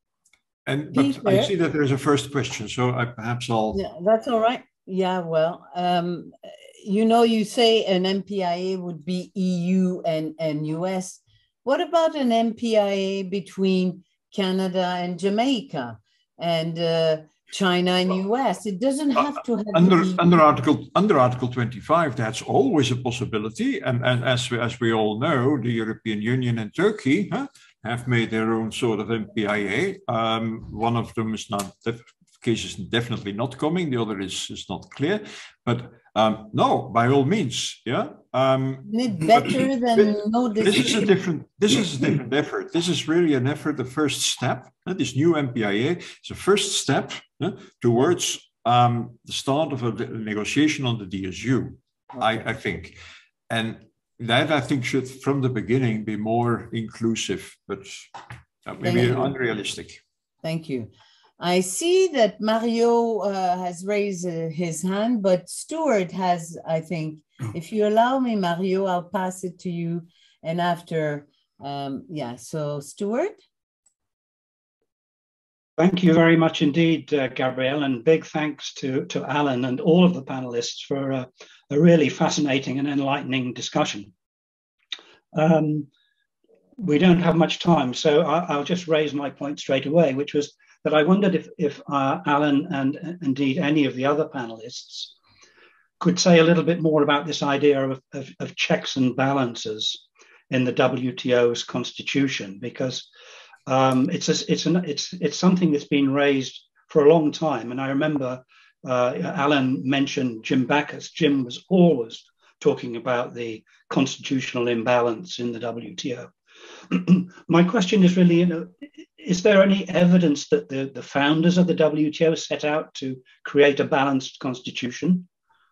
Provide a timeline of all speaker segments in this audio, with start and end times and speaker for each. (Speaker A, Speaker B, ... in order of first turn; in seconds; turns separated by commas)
Speaker A: 0.7-3.8, Speaker B: 0.9-1.5, Speaker B: 3.7-20.4, Speaker A: 19.7-53.0, Speaker B: 38.8-41.0, Speaker B: 52.1-52.4, Speaker A: 53.5-60.0, Speaker B: 58.8-59.3, Speaker B: 60.4-73.4, Speaker C: 75.8-84.1, Speaker C: 85.3-85.9, Speaker C: 86.8-95.1, Speaker C: 96.0-103.1, Speaker C: 103.7-116.3, Speaker C: 116.9-125.3